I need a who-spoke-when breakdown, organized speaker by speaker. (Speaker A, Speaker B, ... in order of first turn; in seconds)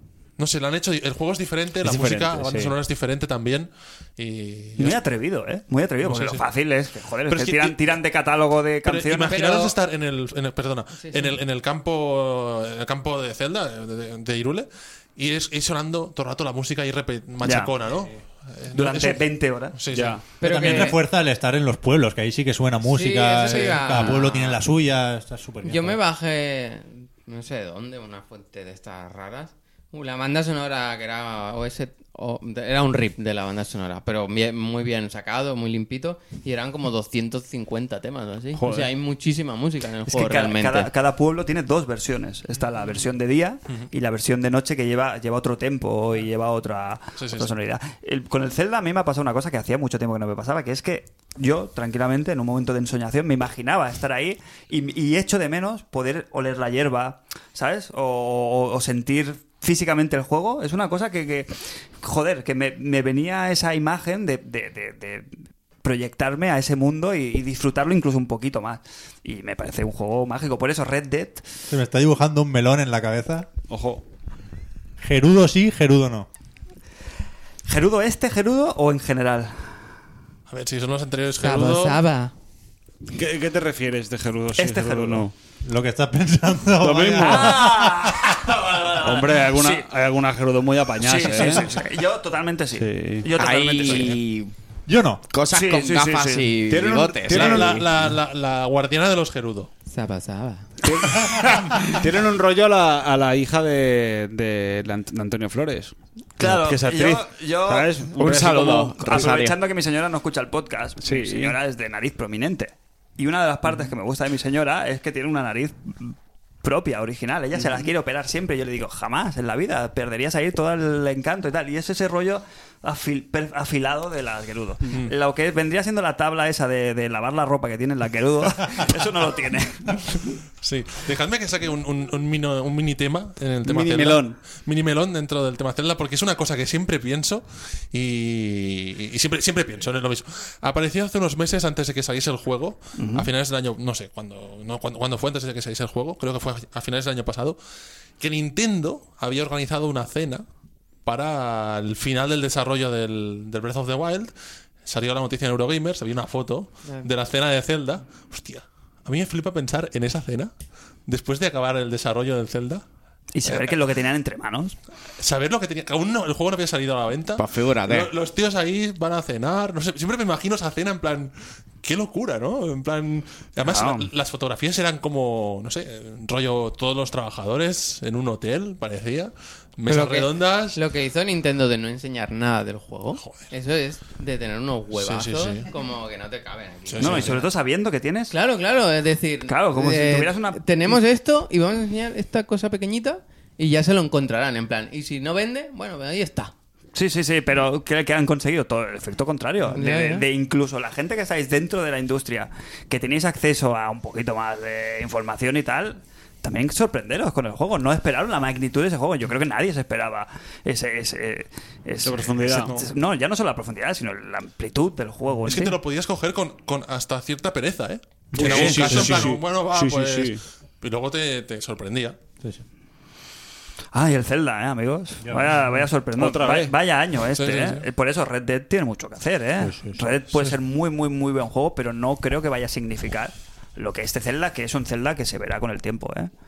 Speaker A: 0.4-5.0, 6.0-6.4, 7.3-7.8, 8.8-20.9, 23.5-24.1, 47.2-47.5, 80.5-82.0, 97.3-99.7, 130.6-147.6, 148.2-150.4, 151.0-154.3, 154.8-160.5, 161.1-162.8, 163.4-163.8, 165.2-180.8, 183.2-183.4, 184.9-185.7, 186.9-187.4, 212.5-212.9, 215.4-222.2, 227.3-227.8
Speaker B: 1.8-2.7, 19.9-20.2, 38.5-38.9, 73.7-74.0, 83.1-85.3, 86.8-87.7, 88.8-91.8, 92.8-93.3, 96.7-98.0, 100.8-109.3, 111.0-111.5, 133.6-134.4, 212.0-212.7, 218.3-220.4, 226.2-226.7
Speaker C: 4.8-9.7, 17.4-17.7, 18.7-19.8, 40.1-65.3, 65.8-71.5, 77.7-79.7, 84.5-85.2, 87.2-89.9, 91.0-94.2, 95.5-96.6, 106.4-130.4, 143.0-143.3, 163.3-164.8, 173.6-174.1, 187.0-188.3, 189.5-190.9, 196.9-215.8, 223.9-236.3
Speaker D: 9.3-9.6, 11.0-11.4, 20.4-21.0, 22.8-24.6, 25.6-40.9, 81.4-82.3, 99.9-100.8, 179.8-187.5, 188.3-196.5, 199.7-200.2
Speaker E: 20.4-26.0, 71.7-73.5, 75.0-76.3, 85.6-88.2, 94.9-95.2, 218.4-219.3, 225.2-225.6, 229.6-230.0
Speaker F: 93.3-94.5, 95.3-97.8, 108.2-109.6, 167.4-168.1